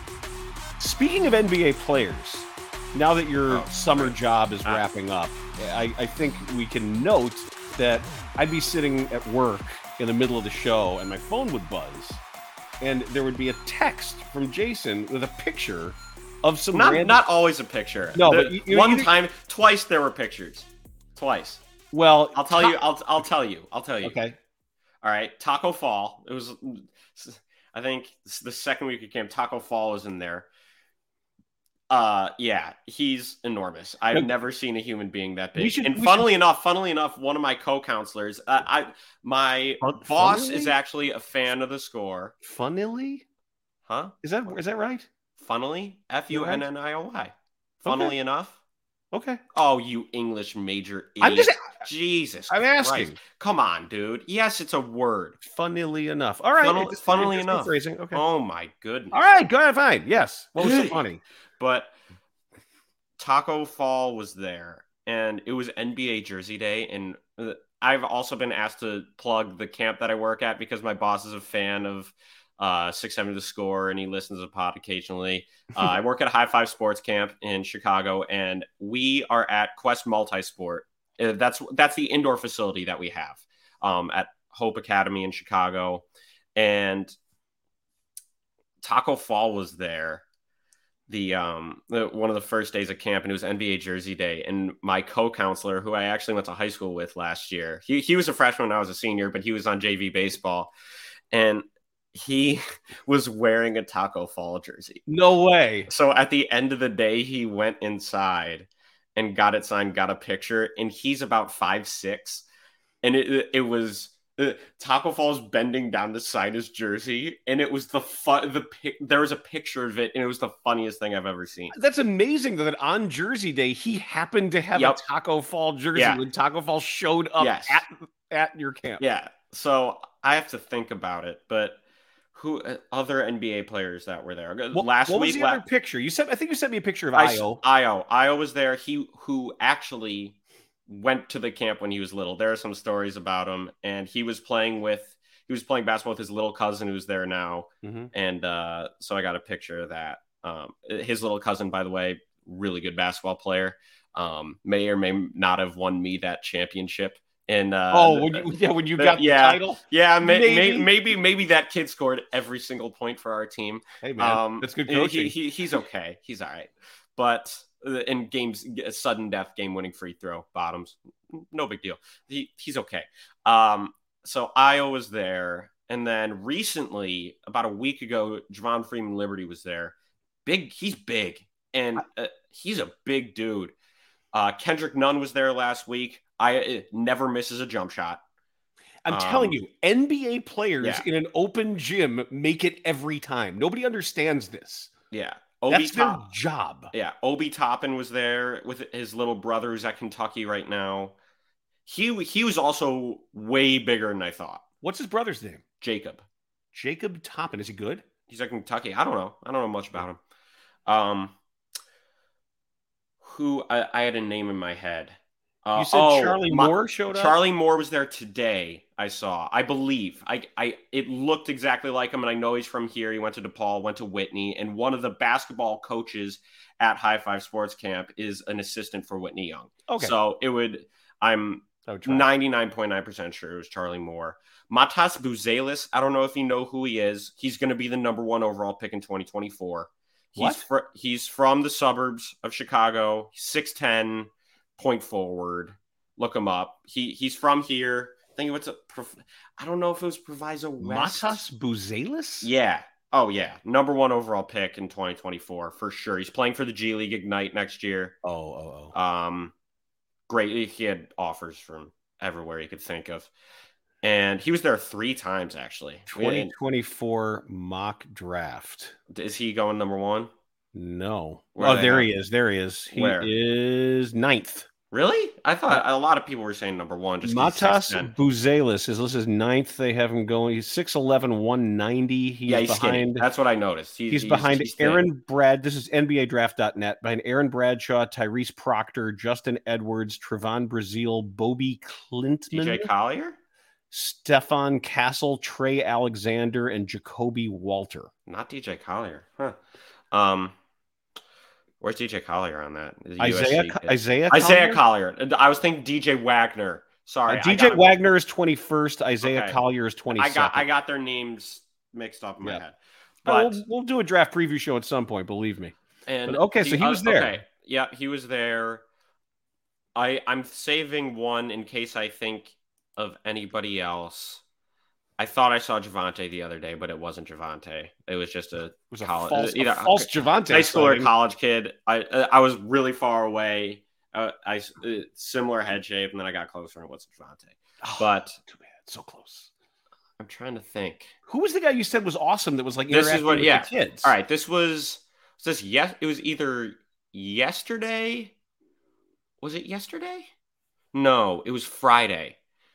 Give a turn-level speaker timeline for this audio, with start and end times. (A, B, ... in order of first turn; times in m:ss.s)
0:00.8-0:12.2 A
0:03.5-0:04.9 B
0:12.8-0:17.2 A
0:16.7-0:21.6 B
0:18.1-0:19.1 A
0:21.9-0:22.8 A
0:22.3-0:24.2 B
0:24.0-0:24.4 A
0:25.0-0:30.5 B
0:31.9-0:42.4 B
0:35.6-0:36.3 A
0:39.8-0:40.8 A
0:42.4-0:43.2 A
0:43.9-0:44.1 B
0:44.2-0:45.1 A
0:45.4-0:47.3 B
0:46.3-0:46.7 A
0:47.8-0:48.6 B
0:47.8-0:48.2 A
0:49.1-0:49.4 A
0:49.5-0:55.4 B
0:51.2-0:51.9 A
0:52.5-0:53.2 A
0:55.4-0:58.2 A
0:56.6-0:59.5 B
0:59.1-1:01.2 A
1:00.6-1:01.1 B
1:01.6-1:02.0 B
1:03.2-1:27.2 B
1:28.8-1:30.3 B
1:31.1-1:40.7 B
1:41.3-1:45.0 B
1:45.1-1:45.9 A
1:45.9-1:52.4 B
1:53.0-2:01.8 B
2:01.7-2:09.0 A
2:04.7-2:05.0 B
2:05.9-2:06.2 B
2:07.4-2:07.8 B
2:09.0-2:11.8 B
2:12.3-2:15.6 B
2:14.7-2:17.6 A
2:17.1-3:03.7 B
2:27.8-2:28.1 A
2:37.9-2:40.9 A
2:44.0-2:45.8 A
3:04.3-3:08.2 B
3:09.0-3:14.9 A
3:09.1-3:09.6 B
3:10.8-3:11.1 B
3:15.1-3:16.3 B
3:15.7-3:16.9 A
3:16.9-3:21.2 B
3:21.9-3:24.7 B
3:24.8-3:25.6 A
3:25.8-3:26.2 B
3:26.7-3:28.0 A
3:28.3-3:30.2 B
3:30.9-3:31.4 B
3:33.2-4:11.4 B
3:35.8-3:37.4 A
3:49.9-3:50.2 A
3:51.9-3:52.3 A
4:00.4-4:00.6 A
4:10.8-4:12.5 A
4:12.4-4:18.2 B
4:18.2-4:18.9 A
4:18.9-4:19.5 B
4:20.3-4:23.3 B
4:24.0-4:26.5 B
4:26.1-4:29.0 A
4:29.1-4:30.3 B
4:30.7-4:34.7 A
4:31.6-4:32.1 B
4:32.9-4:33.3 B
4:34.9-4:38.1 B
4:37.2-4:43.3 A
4:42.4-4:45.1 B
4:44.1-4:52.9 A
4:52.5-4:53.4 B
4:53.9-4:58.1 A
4:58.3-4:59.6 B
5:00.1-5:00.6 B
5:01.8-5:08.0 B
5:03.2-5:04.8 A
5:07.3-5:10.7 A
5:09.2-5:13.6 B
5:13.3-5:15.7 A
5:16.1-5:18.8 B
5:16.3-5:17.4 A
5:20.0-5:24.4 B
5:25.2-5:38.4 B
5:28.9-5:31.1 A
5:37.8-5:39.5 A
5:40.2-5:41.1 B
5:41.3-5:44.2 A
5:42.9-5:48.4 B
5:49.4-5:50.3 B
5:50.9-5:52.4 B